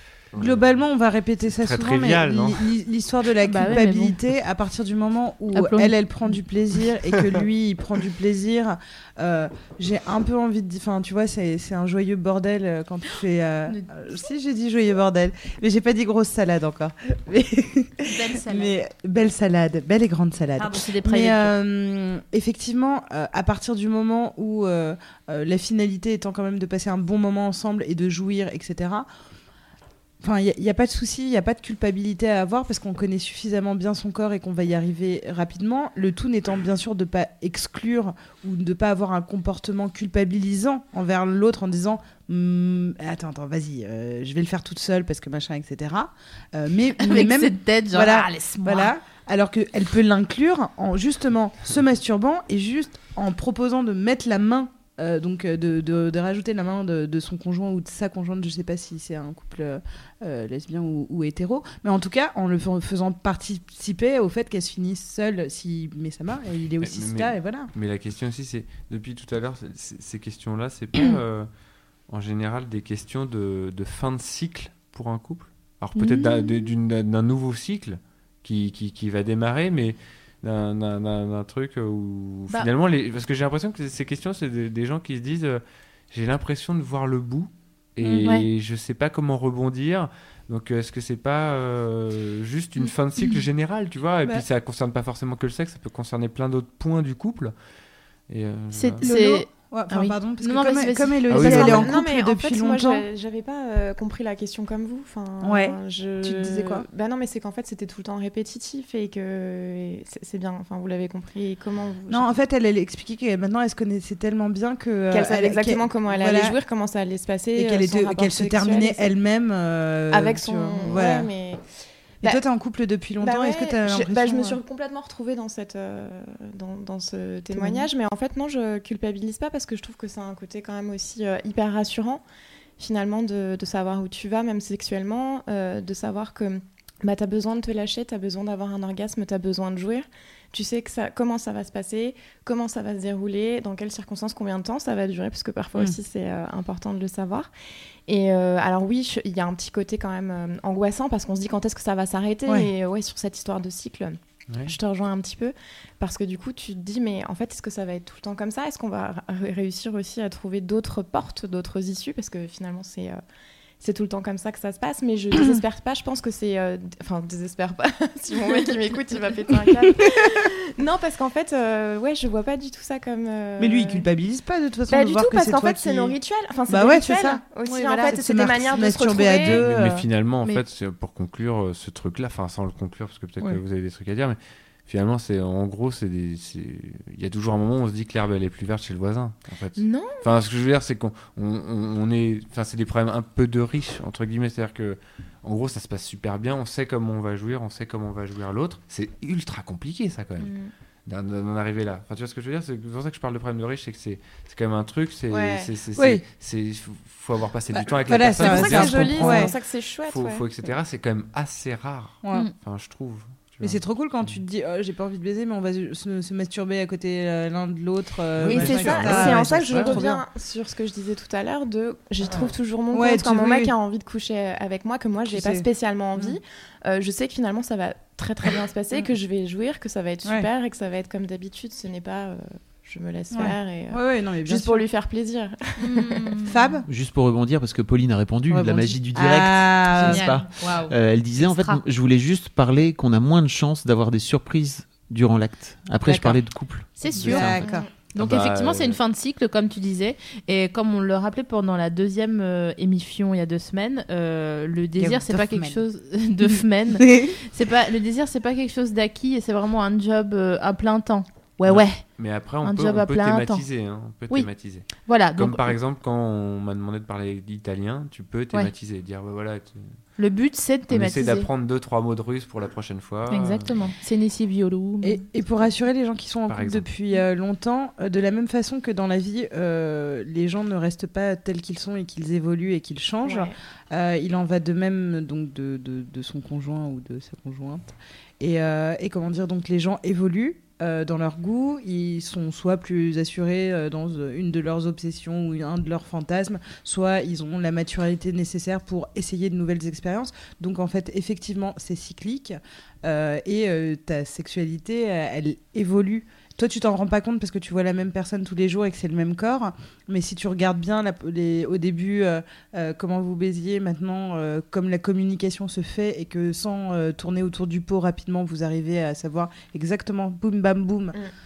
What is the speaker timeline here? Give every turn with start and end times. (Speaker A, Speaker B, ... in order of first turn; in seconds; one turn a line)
Speaker A: 0.3-0.8
Speaker B: 0.3-29.1
Speaker A: 1.5-2.7
Speaker C: 3.4-4.1
Speaker C: 5.5-5.9
Speaker C: 18.0-18.8
Speaker C: 20.6-21.5
Speaker B: 30.2-67.7
Speaker C: 47.0-48.9
Speaker A: 66.8-71.5
Speaker A: 72.1-97.5
Speaker C: 76.0-76.5
Speaker A: 98.3-99.0
Speaker C: 98.7-101.5
Speaker B: 99.0-103.0
Speaker A: 101.3-101.9
Speaker D: 101.5-112.3
Speaker B: 105.4-106.8
Speaker B: 112.1-116.5
Speaker D: 115.1-119.1
Speaker B: 117.5-121.3
Speaker D: 120.1-121.7
Speaker B: 122.2-124.6
Speaker D: 123.2-132.2
Speaker B: 127.5-127.8
Speaker D: 132.8-147.5
Speaker D: 148.1-163.2
Speaker A: 154.5-154.7
Speaker D: 163.8-174.1
Speaker B: 173.6-176.2
Speaker D: 174.9-179.6
Speaker B: 176.7-177.4
Speaker C: 177.6-178.2
Speaker B: 178.1-180.6
Speaker A: 179.4-200.5
Speaker D: 189.8-190.2
Speaker D: 200.4-200.7
Speaker A: 201.1-214.4
Speaker D: 205.3-205.7
Speaker B: 205.9-206.2
Speaker B: 207.7-209.5
Speaker D: 208.1-210.4
Speaker B: 213.6-220.2
Speaker A: 218.4-220.0
Speaker D: 218.5-236.3
Speaker C: 218.5-219.1
Speaker B: 222.9-223.7
Speaker B: 225.2-226.4
Speaker B: 233.3-234.8
Speaker C: 235.8-236.5
Speaker B: 236.4-236.8
Speaker E: 236.9-247.6
Speaker B: 238.5-240.4
Speaker C: 240.0-241.8
Speaker B: 246.0-246.6
Speaker C: 247.0-247.6
Speaker B: 247.1-247.9
Speaker D: 247.6-247.9
Speaker C: 248.1-262.0
Speaker A: 248.2-249.0
Speaker B: 255.0-255.8
Speaker B: 256.4-257.4
Speaker A: 261.6-270.0
Speaker C: 262.6-263.6
Speaker C: 264.3-265.7
Speaker C: 270.2-271.5
Speaker A: 270.9-273.9
Speaker C: 273.3-275.2
Speaker B: 275.0-321.2
Speaker A: 276.5-276.9
Speaker D: 283.2-283.6